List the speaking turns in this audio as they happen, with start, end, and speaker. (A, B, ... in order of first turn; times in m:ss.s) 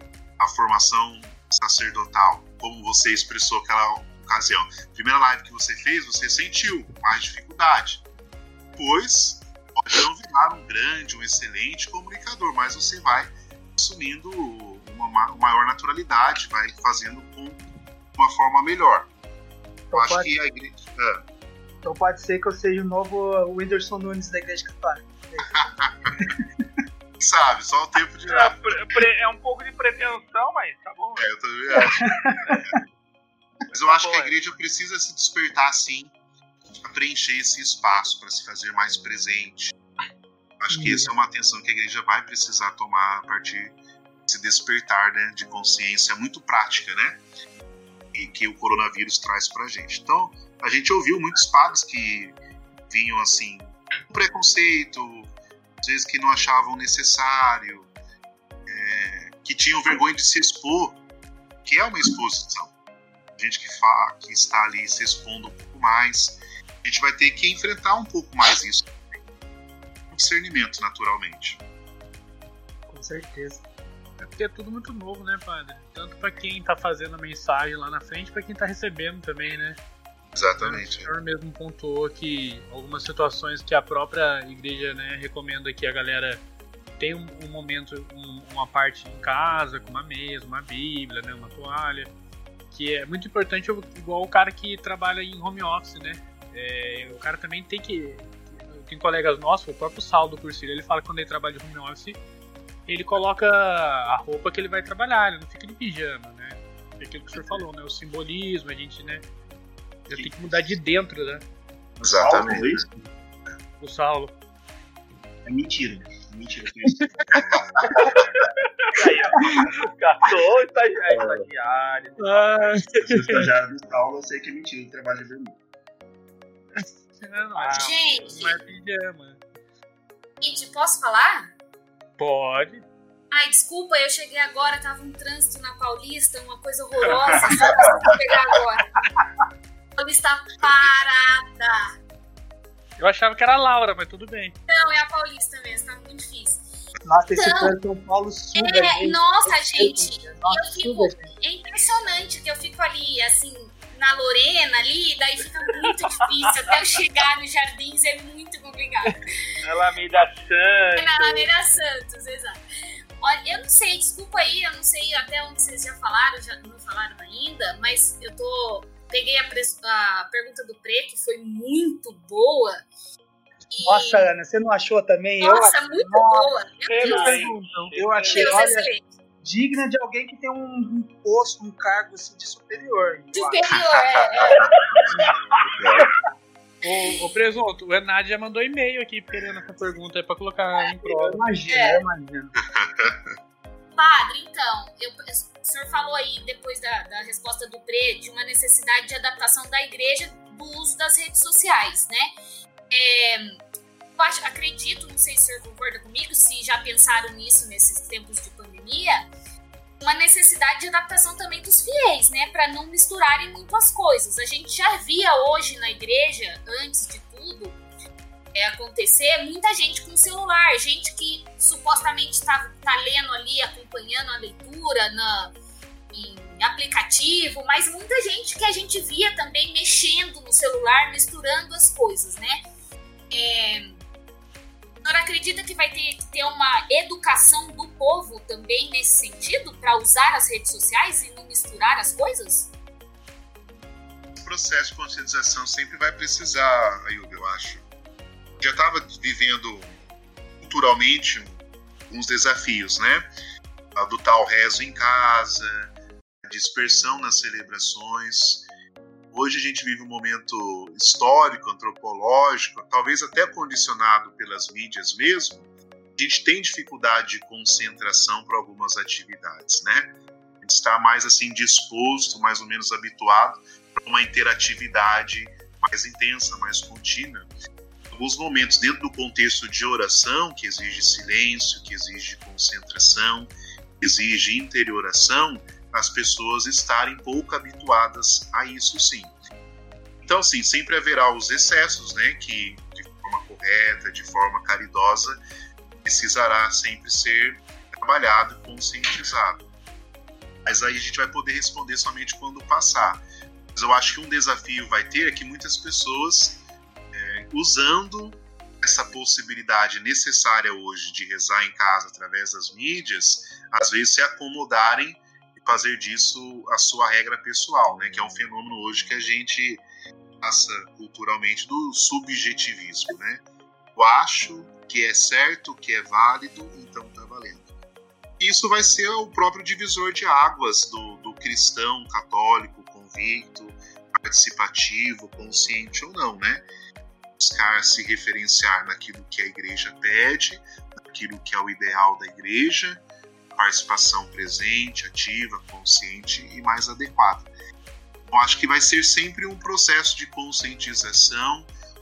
0:00.4-0:08.0 A
0:08.8-0:17.6 A
0:18.2-0:19.1 A
0:19.9-0:21.2 A
0:19.9-0:20.3 B
0:21.8-0:25.6 B
0:25.5-0:26.2 A
0:26.1-0:26.4 B
0:27.2-0:28.8 A
0:28.3-0:31.3 C
0:31.2-0:32.8 A
0:31.8-0:32.7 B
0:33.7-0:36.1 A
0:33.8-0:34.3 C
0:36.8-0:39.8 A
0:40.6-0:47.2 A
0:40.7-0:41.1 B
0:48.1-0:52.4 A
0:52.9-0:57.9 A
0:58.6-1:01.0 A
1:01.6-1:02.7 A
1:03.4-1:08.9 A
1:10.1-1:11.6 A
1:12.9-1:13.6 B
1:14.3-1:19.8 D
1:20.3-1:21.1 A
1:20.6-1:26.4 D
1:27.0-1:32.1 D
1:32.7-1:42.2 D
1:42.9-1:49.2 D
1:50.1-1:51.4 D
1:50.1-1:50.6 E
1:52.0-1:52.9 E
1:52.0-1:52.8 A
1:53.8-1:54.3 D
1:55.4-1:57.2 E
1:57.0-1:58.0 D
1:58.9-2:02.8 C
2:02.2-2:03.5 D
2:03.0-2:05.6 E
2:06.8-2:09.4 D
2:07.6-2:08.6 C
2:07.8-2:08.4 F
2:10.4-2:11.5 F
2:12.2-2:12.8 D
2:13.3-2:18.8 F
2:17.1-2:17.4 E
2:20.0-2:21.9 F
2:23.0-2:24.5 D
2:24.7-2:26.7 F
2:27.0-2:31.3 B
2:27.3-2:27.7 F
2:28.5-2:39.3 F
2:39.6-2:41.5 C
2:41.0-2:42.6 F
2:43.2-2:52.9 F
2:53.7-2:54.3 F
2:53.8-2:58.9 B
2:55.4-2:57.5 F
2:56.9-2:58.6 C
2:58.3-2:59.0 F
2:59.4-3:03.6 B
3:03.3-3:04.6 F
3:03.8-3:04.7 A
3:05.8-3:06.1 A
3:06.8-3:11.4 D
3:11.0-3:12.5 B
3:11.7-3:12.0 F
3:12.7-3:13.3 A
3:13.9-3:22.3 F
3:22.9-3:23.6 F
3:24.2-3:29.3 F
3:30.0-3:37.8 F
3:38.5-3:45.5 F
3:46.1-3:52.6 F
3:53.3-3:54.0 F
3:55.0-4:02.7 F
4:04.3-4:07.8 A
4:08.6-4:10.0 A
4:10.6-4:13.2 A
4:14.0-4:15.9 A
4:16.4-4:18.7 A
4:19.3-4:37.5 A
4:38.1-4:49.3 A
4:50.2-4:55.4 A
4:56.0-4:59.7 A
5:00.6-5:03.2 A
5:03.7-5:06.6 A
5:07.1-5:19.8 A
5:20.4-5:23.4 A
5:23.9-5:27.7 A
5:28.4-5:36.6 A
5:37.4-5:47.5 A
5:48.2-5:51.7 A